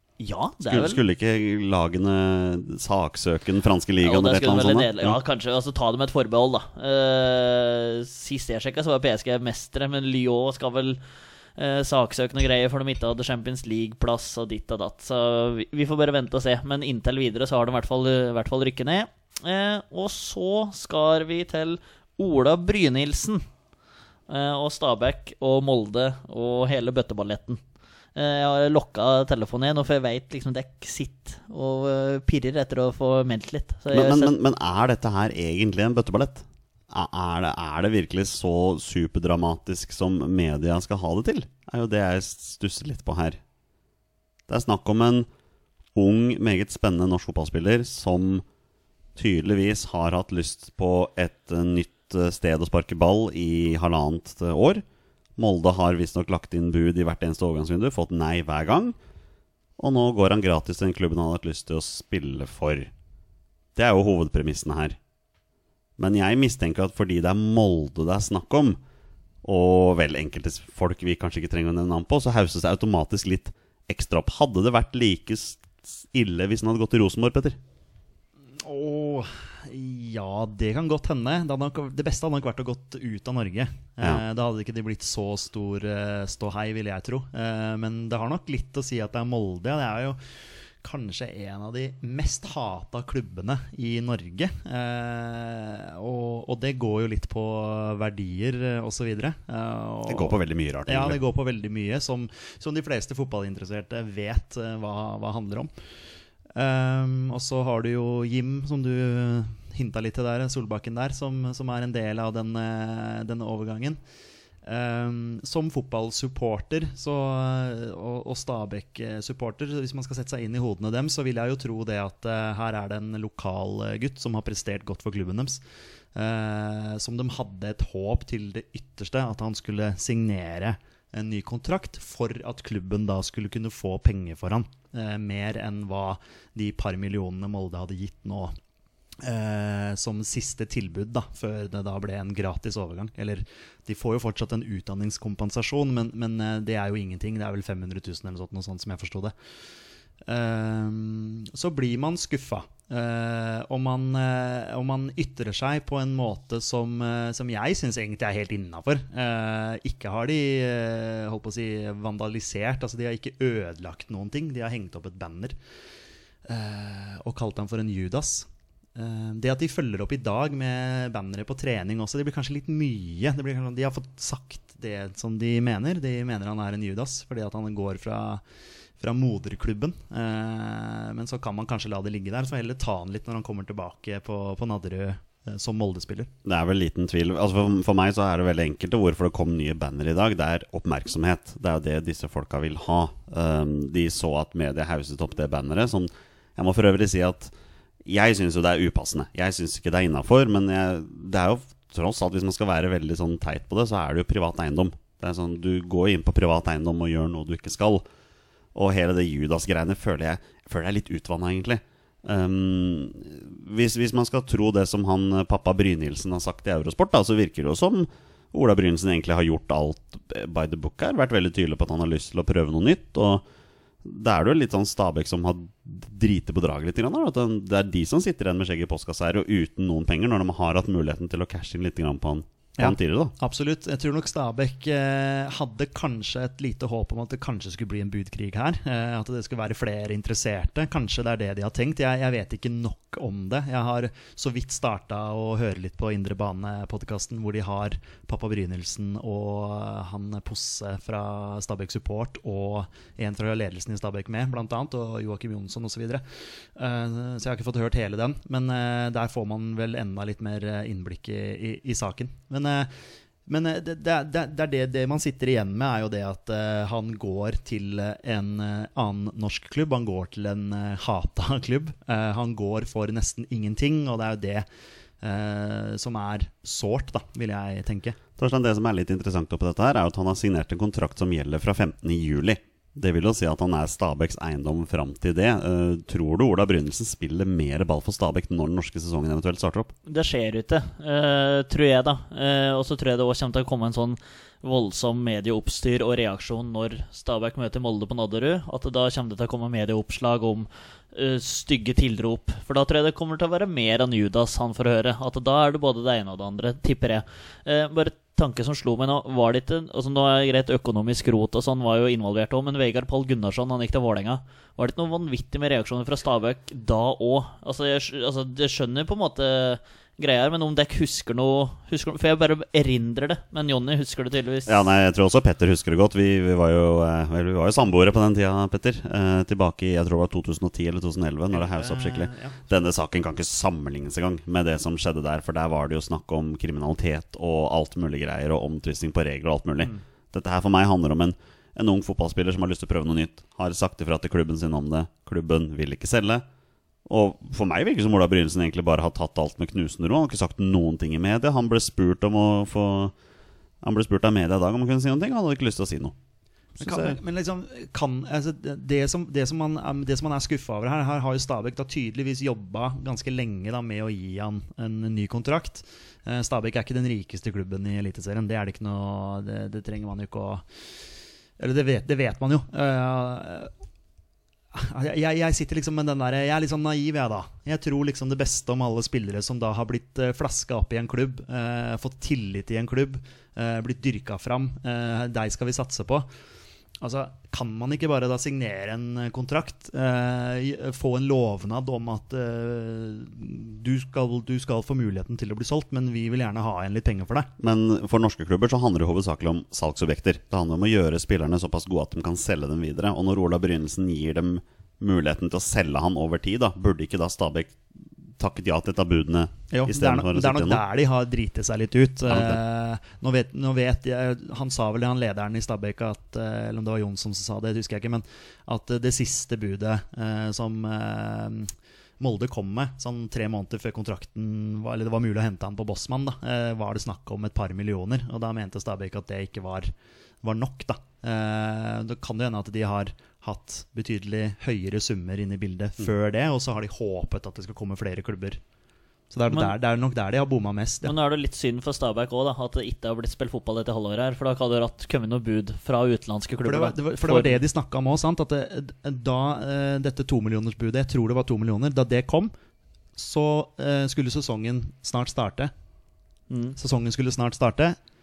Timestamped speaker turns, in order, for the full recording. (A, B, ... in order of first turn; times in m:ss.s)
0:00.2-0:01.0 A
0:00.6-0:05.2 B
0:04.0-0:11.0 A
0:11.6-0:23.4 A
0:24.3-0:27.6 A
0:28.2-0:34.3 A
0:33.9-0:43.4 B
0:44.5-0:45.3 B
0:46.0-0:48.4 B
0:49.2-0:54.8 B
0:55.4-0:59.0 B
0:59.8-1:02.9 B
1:03.8-1:05.0 B
1:06.0-1:08.8 B
1:09.4-1:17.6 B
1:18.6-1:30.2 C
1:30.8-1:45.7 C
1:40.1-1:41.2 B
1:46.6-1:54.0 C
1:54.6-2:05.6 C
2:06.2-2:18.5 C
2:19.2-2:29.3 C
2:30.3-2:45.6 C
2:46.5-2:58.4 C
2:59.0-3:06.3 C
3:06.4-3:17.5 B
3:18.0-3:28.1 B
3:28.8-3:43.4 B
3:44.0-3:53.3 B
3:52.8-4:16.2 C
4:16.8-4:22.9 C
4:23.5-4:34.6 C
4:35.2-4:38.2 C
4:38.4-4:49.9 B
4:50.1-5:24.8 A
5:24.7-5:46.4 B
5:31.5-5:32.6 C
5:47.1-5:53.1 B
5:53.8-5:56.2 B
5:56.8-5:57.2 B
5:56.8-6:10.6 C
6:11.6-6:13.7 C
6:14.7-6:26.3 C
6:27.0-6:37.5 C
6:37.6-6:47.8 B
6:48.4-6:50.8 B
6:49.7-7:09.9 C
6:52.3-6:52.6 B
7:10.4-7:18.6 C
7:19.3-7:21.2 C
7:21.0-7:27.6 A
7:26.6-7:32.5 C
7:33.2-7:35.7 C
7:36.5-7:36.8 A
7:36.8-7:38.0 C